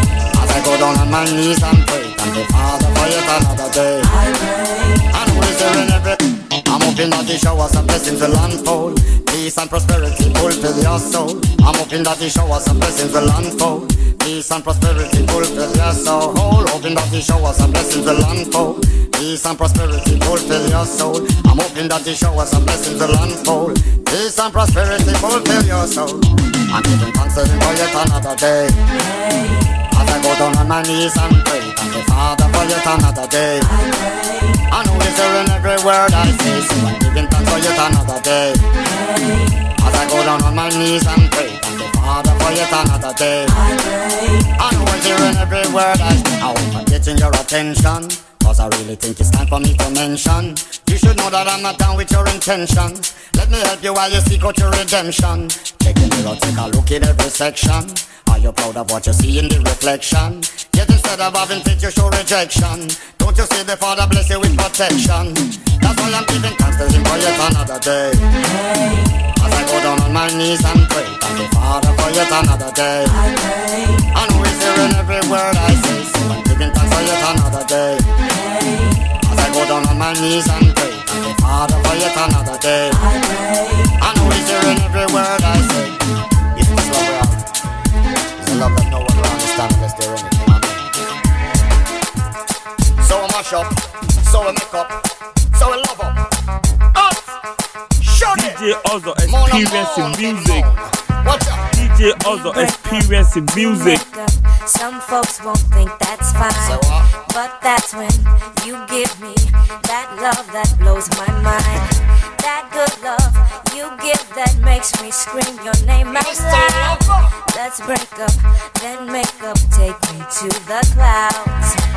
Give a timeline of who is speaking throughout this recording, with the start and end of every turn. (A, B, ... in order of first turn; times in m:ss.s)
0:00.3-0:04.1 A
0:05.1-0:28.8 A
0:29.9-0:33.7 A
0:34.7-0:38.6 A
0:39.8-0:43.6 A
0:44.6-1:08.2 A
1:09.4-1:13.2 A
1:14.1-1:18.0 A
1:19.2-1:23.0 A
1:24.0-1:26.0 A
1:26.6-1:27.4 A
1:28.4-1:30.8 A
1:33.0-1:35.0 A
1:35.5-1:36.2 A
1:37.0-1:37.2 A
1:38.0-1:38.6 A
1:38.3-1:40.7 B
1:39.2-1:41.6 A
1:41.7-1:44.0 B
1:42.2-1:43.0 C
1:43.7-1:46.8 C
1:46.6-1:47.2 A
1:47.3-1:51.8 C
1:52.4-1:57.0 C
1:56.1-1:57.3 A
1:57.5-2:01.8 C